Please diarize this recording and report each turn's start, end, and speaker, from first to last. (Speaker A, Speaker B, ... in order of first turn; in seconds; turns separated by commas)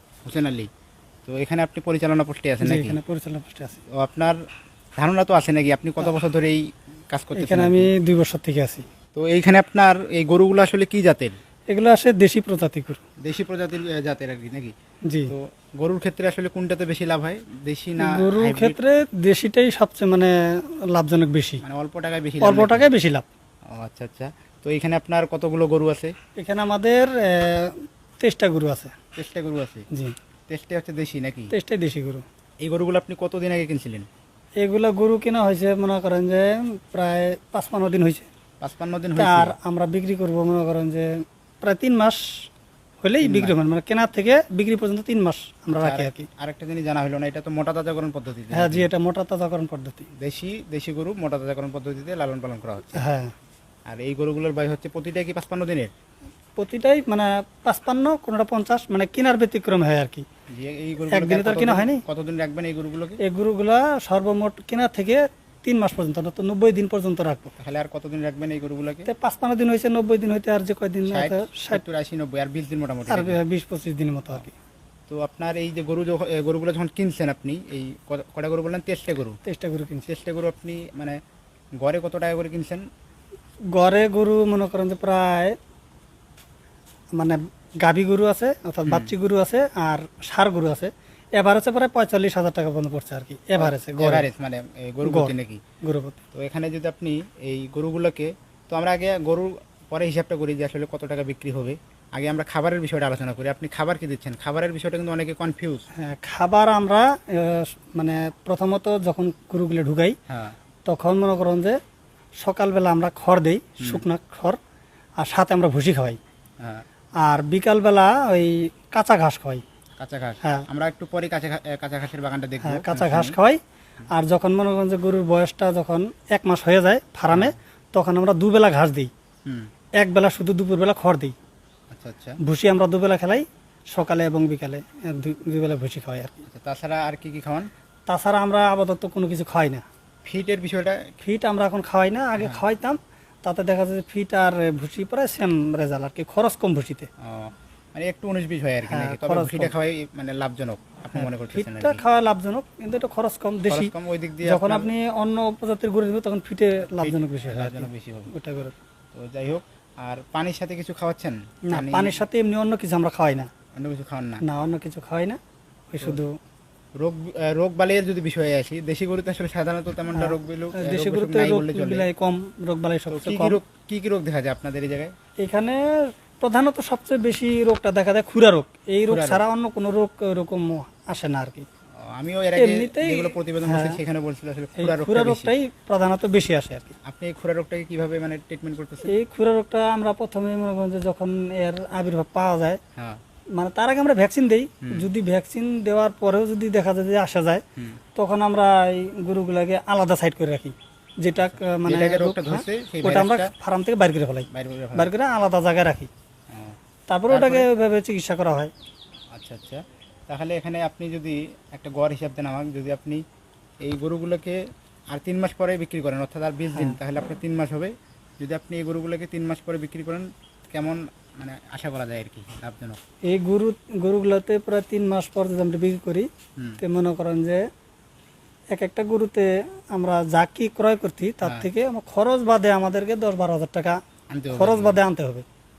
Speaker A: 0.2-0.7, Speaker A: 1.2-3.0, Speaker B: 2.6-3.8, Speaker A: 3.9-4.4, Speaker A: 5.0-7.9, Speaker B: 7.3-8.8, Speaker A: 9.1-11.3, Speaker B: 11.7-13.0, Speaker A: 13.2-14.7, Speaker A: 15.3-18.8, Speaker B: 18.0-21.6, Speaker A: 21.6-22.9, Speaker B: 22.4-23.2, Speaker A: 23.7-26.1, Speaker B: 26.4-28.9, Speaker A: 29.1-29.9, Speaker A: 30.5-31.5, Speaker B: 31.5-32.2, Speaker A: 32.6-34.1, Speaker B: 34.6-38.2, Speaker A: 38.6-39.5, Speaker B: 39.2-41.1, Speaker B: 41.6-42.2, Speaker B: 43.0-46.3, Speaker A: 43.2-43.5, Speaker A: 45.8-48.9, Speaker B: 48.5-50.1, Speaker A: 50.2-53.0, Speaker B: 53.0-53.3, Speaker A: 53.9-55.9, Speaker B: 56.6-60.2, Speaker A: 60.5-63.2, Speaker B: 61.1-62.0, Speaker B: 63.2-67.5, Speaker A: 67.6-69.1, Speaker B: 69.0-71.8, Speaker A: 71.1-73.4, Speaker B: 73.1-74.5, Speaker A: 75.1-79.4, Speaker B: 79.5-80.0, Speaker A: 80.0-81.2, Speaker A: 81.8-82.8, Speaker B: 83.7-85.6, Speaker B: 87.2-94.3, Speaker A: 88.8-89.1, Speaker A: 93.6-95.6, Speaker B: 95.0-96.2, Speaker A: 96.3-105.8, Speaker B: 106.0-110.2, Speaker A: 110.3-110.5, Speaker B: 110.9-111.8, Speaker B: 112.4-114.6, Speaker B: 115.2-116.2, Speaker B: 117.2-119.6, Speaker A: 120.0-123.4, Speaker B: 122.6-123.6, Speaker B: 124.1-129.1, Speaker A: 127.3-127.5, Speaker B: 130.0-131.3, Speaker A: 131.9-132.4, Speaker B: 132.4-136.4, Speaker A: 136.4-137.7, Speaker B: 138.1-139.8, Speaker A: 140.2-141.1, Speaker B: 141.2-147.1, Speaker A: 147.2-152.0, Speaker B: 148.9-149.7, Speaker B: 151.1-153.9, Speaker A: 153.7-154.9, Speaker B: 154.4-158.7, Speaker A: 157.0-158.3, Speaker A: 159.1-162.2, Speaker B: 161.7-163.5, Speaker A: 163.7-164.4, Speaker B: 164.4-165.4, Speaker B: 165.9-166.3, Speaker A: 167.0-172.1, Speaker B: 170.1-173.6, Speaker A: 173.1-175.1, Speaker B: 175.4-181.7, Speaker A: 179.1-179.4, Speaker A: 182.0-185.5, Speaker B: 182.6-184.0, Speaker B: 184.8-186.9, Speaker A: 187.0-189.1, Speaker B: 189.1-192.8, Speaker B: 193.6-197.6, Speaker B: 198.1-206.1, Speaker A: 201.4-203.5, Speaker A: 204.5-205.1, Speaker A: 206.5-206.8, Speaker B: 207.1-208.7, Speaker A: 207.3-207.7, Speaker A: 209.3-213.2, Speaker A: 213.8-214.6, Speaker A: 215.1-223.0, Speaker B: 223.3-226.3, Speaker B: 226.8-227.6, Speaker B: 228.7-233.9, Speaker A: 234.3-235.0, Speaker B: 234.5-235.4